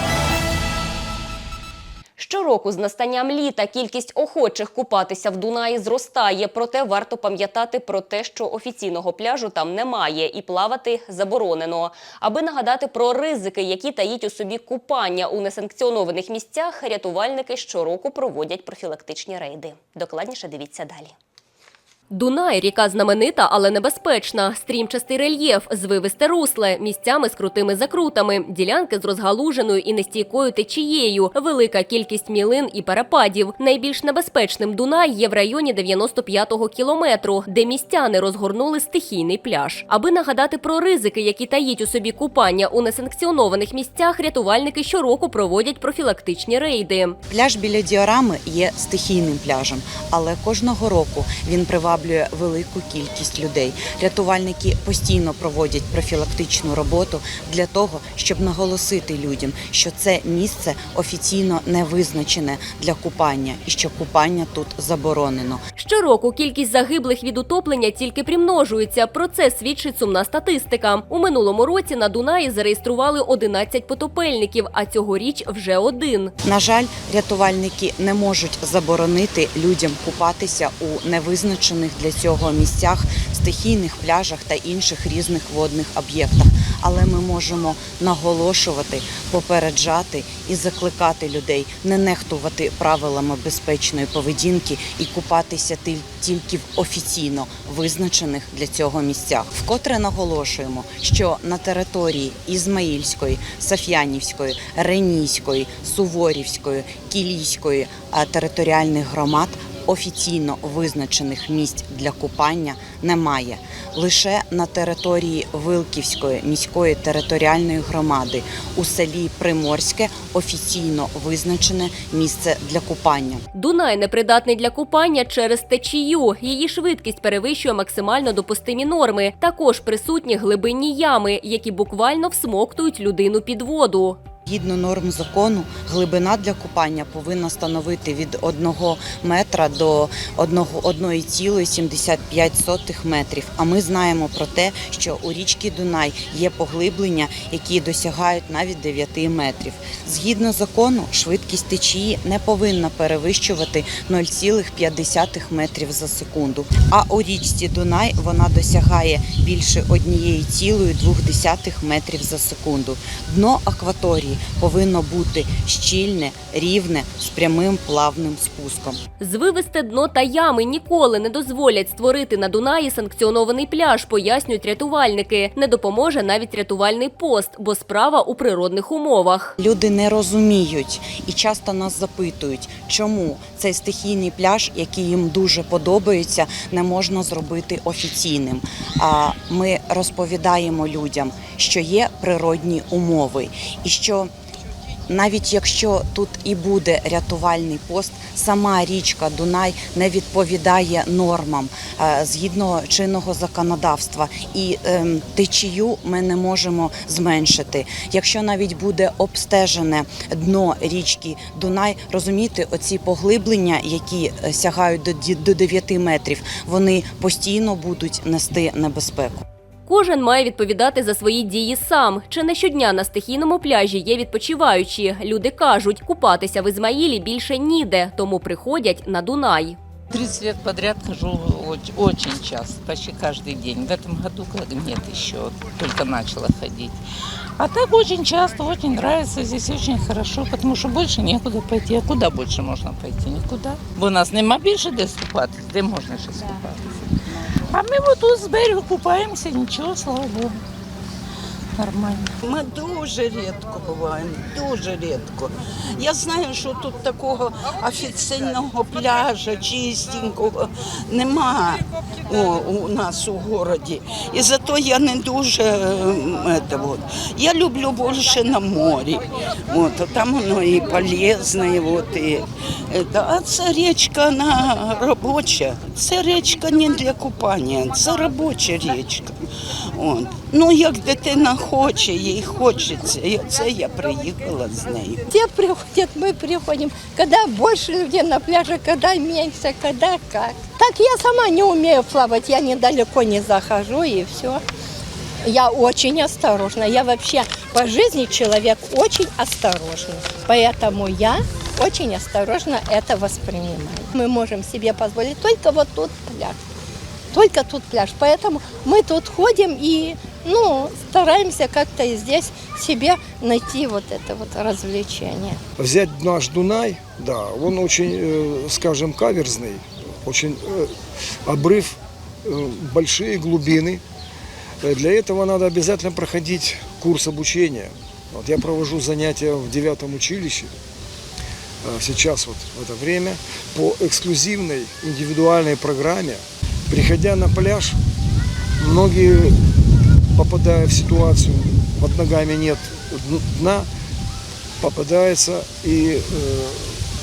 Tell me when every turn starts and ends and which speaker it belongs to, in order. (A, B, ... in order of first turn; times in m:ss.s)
0:02.2-0:21.1 A
0:22.1-0:47.2 A
0:47.3-1:05.6 B
1:05.8-1:16.3 A
1:16.4-2:03.4 B
2:03.5-2:14.2 A
2:14.4-2:49.0 B
2:49.2-2:59.6 A
2:59.6-3:14.3 B
3:15.1-3:39.4 B
3:39.9-3:49.8 A
3:50.1-3:57.0 C
3:57.6-4:07.0 C
4:07.7-4:10.6 C
4:11.8-4:12.3 C
4:12.4-4:39.4 D
4:39.9-4:45.2 D
4:45.3-4:54.6 E
4:55.4-5:06.6 E
5:07.3-5:15.6 E
5:15.8-5:20.9 F
5:21.4-5:24.0 F
5:24.8-5:30.7 F
5:31.8-5:38.0 F
5:38.8-5:39.6 F
5:40.3-5:43.9 F
5:44.8-5:47.0 F